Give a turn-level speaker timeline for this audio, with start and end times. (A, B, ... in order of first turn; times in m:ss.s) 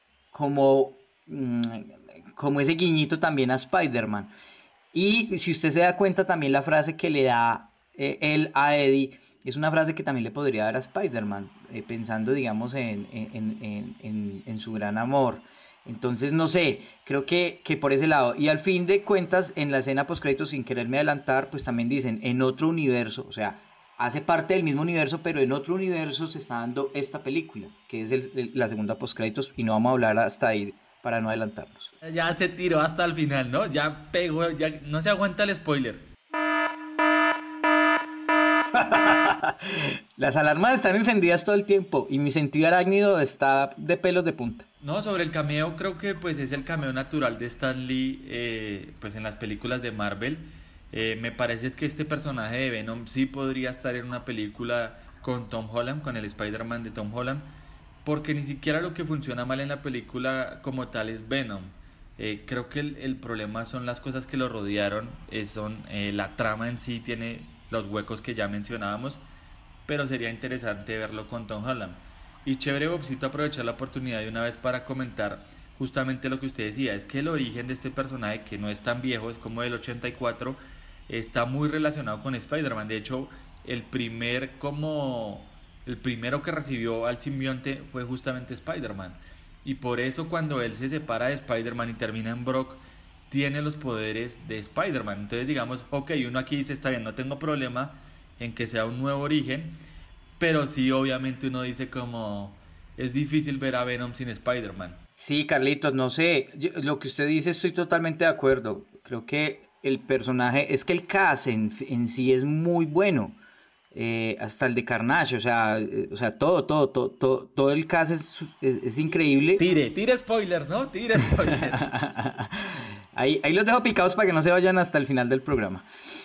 0:00.3-0:04.3 A
0:04.9-0:31.9 A
0:32.0-0:36.1 B
0:38.7-0:44.7 A
0:44.8-0:57.5 B
0:58.0-1:09.2 B
1:09.9-1:39.8 B
1:40.4-1:45.0 B
1:45.2-1:53.4 A
1:53.9-1:59.6 A
1:59.6-2:01.9 B
2:01.5-2:05.9 A